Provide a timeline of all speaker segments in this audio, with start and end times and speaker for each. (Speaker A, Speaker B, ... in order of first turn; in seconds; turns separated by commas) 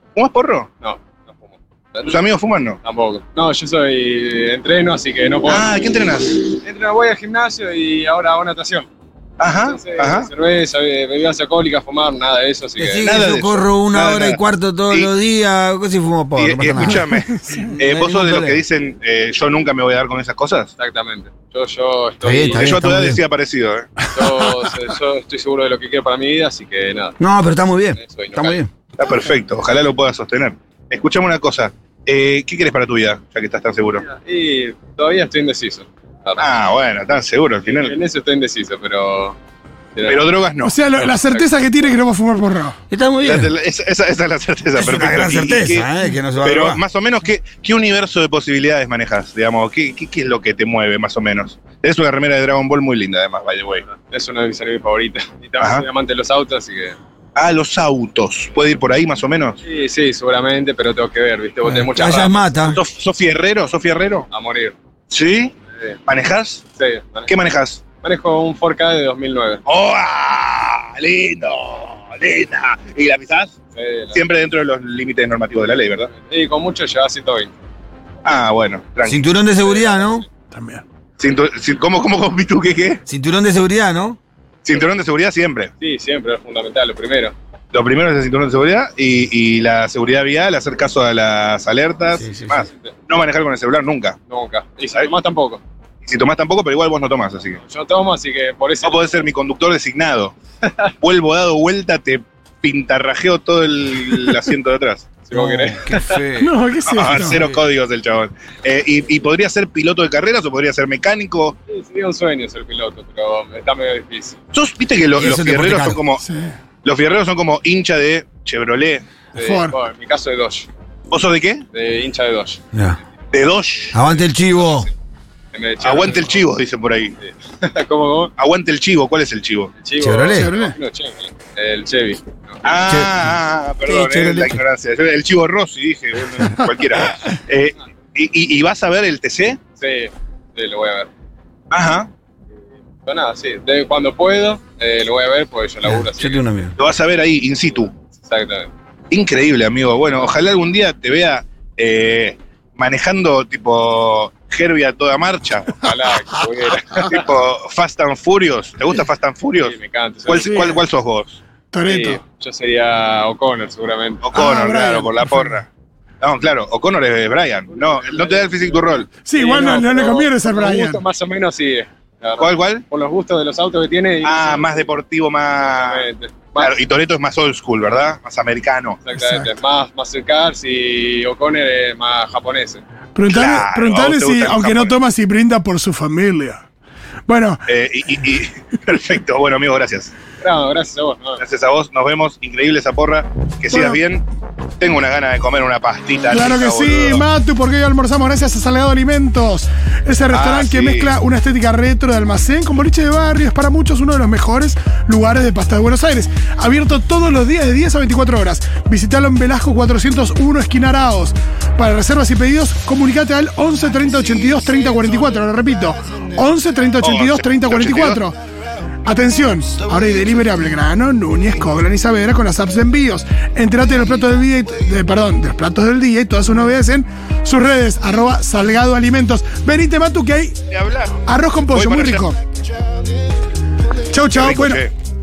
Speaker A: 0.1-0.7, Speaker B: 0.8-2.2, Speaker A: 2.0-2.8, Speaker B: 2.8-5.7, Speaker A: 5.5-6.6, Speaker B: 6.6-8.9, Speaker A: 9.4-10.3, Speaker B: 9.6-13.3, Speaker C: 12.8-17.1, Speaker A: 13.0-15.1, Speaker A: 16.4-20.7, Speaker D: 17.3-17.7, Speaker C: 17.6-18.6, Speaker B: 20.8-22.8, Speaker C: 22.2-23.2, Speaker A: 22.5-24.0, Speaker B: 24.1-27.2, Speaker C: 27.2-28.7, Speaker B: 27.9-28.6, Speaker A: 29.0-34.0, Speaker B: 34.0-36.6, Speaker A: 36.4-38.0, Speaker B: 37.6-39.4, Speaker B: 39.9-40.4, Speaker A: 40.0-40.8, Speaker D: 40.6-42.8, Speaker B: 41.0-41.9, Speaker C: 42.9-43.5, Speaker A: 43.2-45.9, Speaker C: 44.8-46.8, Speaker A: 46.4-53.8, Speaker B: 53.9-57.0, Speaker A: 55.6-55.9, Speaker A: 57.4-59.6, Speaker B: 59.6-62.7, Speaker C: 61.6-62.8, Speaker A: 62.7-64.3, Speaker B: 64.3-64.7, Speaker A: 65.1-65.5, Speaker A: 66.0-66.6, Speaker B: 66.8-67.4, Speaker A: 67.3-67.8, Speaker B: 68.0-69.6, Speaker A: 69.7-73.5, Speaker B: 73.7-74.2, Speaker A: 74.1-76.1, Speaker B: 75.8-77.5, Speaker A: 78.2-79.3, Speaker C: 79.0-80.3, Speaker B: 79.6-80.2, Speaker D: 80.5-80.8, Speaker A: 81.2-83.0, Speaker C: 83.1-84.2, Speaker A: 84.6-85.7, Speaker B: 85.8-87.3, Speaker A: 87.7-94.2, Speaker C: 92.1-92.7, Speaker B: 92.7-92.9, Speaker B: 94.3-95.6, Speaker A: 96.0-97.6, Speaker B: 97.6-99.2, Speaker A: 98.8-100.3, Speaker A: 101.0-105.1, Speaker B: 105.2-106.2, Speaker C: 105.3-106.5, Speaker D: 106.3-107.4, Speaker A: 106.8-111.5, Speaker C: 107.1-107.6, Speaker B: 111.7-114.4, Speaker A: 114.5-116.2, Speaker C: 115.1-116.0, Speaker D: 116.2-116.5, Speaker A: 116.8-119.0, Speaker B: 119.3-120.7, Speaker D: 119.4-119.8, Speaker A: 121.1-121.6, Speaker B: 121.7-122.6, Speaker C: 122.7-123.0, Speaker A: 123.3-124.0, Speaker B: 123.9-124.9, Speaker C: 123.9-124.9, Speaker B: 125.5-126.4, Speaker A: 125.8-127.1, Speaker B: 127.2-128.3, Speaker A: 128.4-129.7, Speaker B: 129.8-132.7, Speaker C: 130.0-130.5, Speaker D: 130.3-130.8, Speaker A: 132.6-139.6, Speaker C: 132.9-133.3, Speaker C: 133.8-134.6, Speaker B: 139.8-141.1, Speaker A: 141.7-142.1, Speaker B: 143.1-146.4, Speaker C: 145.8-146.8, Speaker A: 146.8-147.9, Speaker B: 148.1-148.7, Speaker A: 149.1-155.8, Speaker B: 155.8-157.3, Speaker A: 157.0-159.8, Speaker B: 159.6-160.7, Speaker A: 160.3-161.4, Speaker D: 160.3-160.8, Speaker D: 161.7-162.2, Speaker B: 161.8-164.3, Speaker A: 164.2-165.7, Speaker D: 164.3-165.5, Speaker A: 166.2-169.1, Speaker B: 167.7-174.9, Speaker D: 169.1-171.0, Speaker A: 172.4-172.8, Speaker A: 174.2-179.0, Speaker B: 175.6-176.8, Speaker B: 179.0-182.8, Speaker D: 179.2-179.5, Speaker D: 183.1-186.6, Speaker A: 183.3-185.0, Speaker D: 187.3-187.6, Speaker A: 187.7-190.1, Speaker B: 190.4-191.4, Speaker A: 191.4-194.2, Speaker D: 193.7-194.0, Speaker A: 194.8-197.2, Speaker D: 196.3-218.4, Speaker A: 200.3-201.2, Speaker A: 217.0-218.2, Speaker D: 219.0-230.6, Speaker A: 230.7-232.3, Speaker D: 231.2-232.4, Speaker D: 234.1-234.8, Speaker A: 234.3-234.9